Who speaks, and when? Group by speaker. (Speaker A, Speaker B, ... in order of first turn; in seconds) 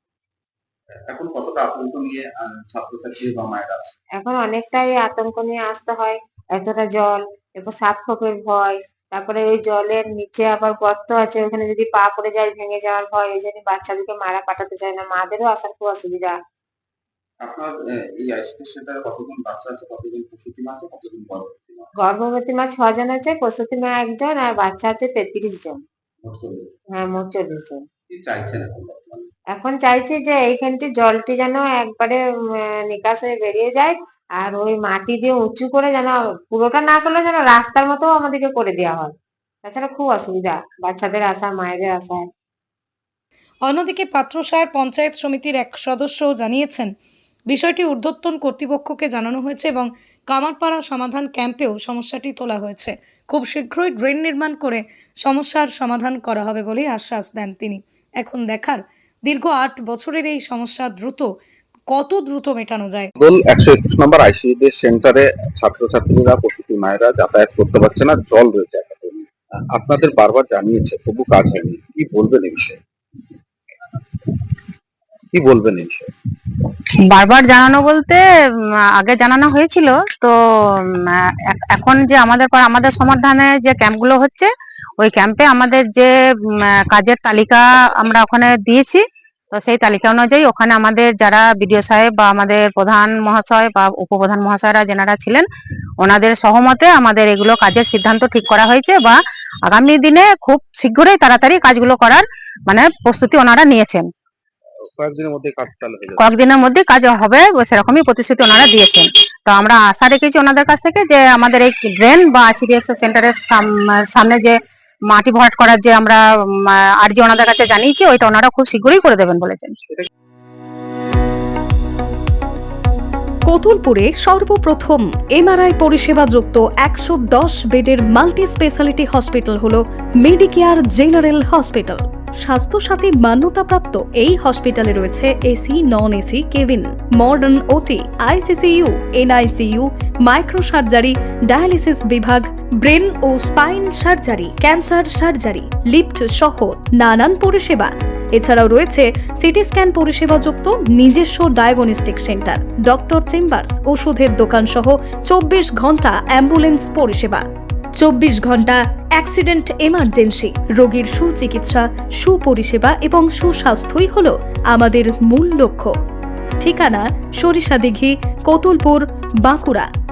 Speaker A: 1.0-4.0, 17.4-21.9, 26.2-26.6, 28.1-29.3, 63.2-72.8, 75.3-76.1, 105.0-106.2
Speaker B: 4.2-16.4, 22.0-25.8, 26.9-27.8, 29.5-39.1, 39.6-42.3
Speaker C: 43.6-46.9, 47.5-61.3, 61.9-63.1
Speaker D: 77.1-78.2, 79.0-95.4, 96.0-104.1, 106.2-114.6, 115.1-119.8
Speaker E: 123.5-157.4, 158.0-165.9, 166.6-169.9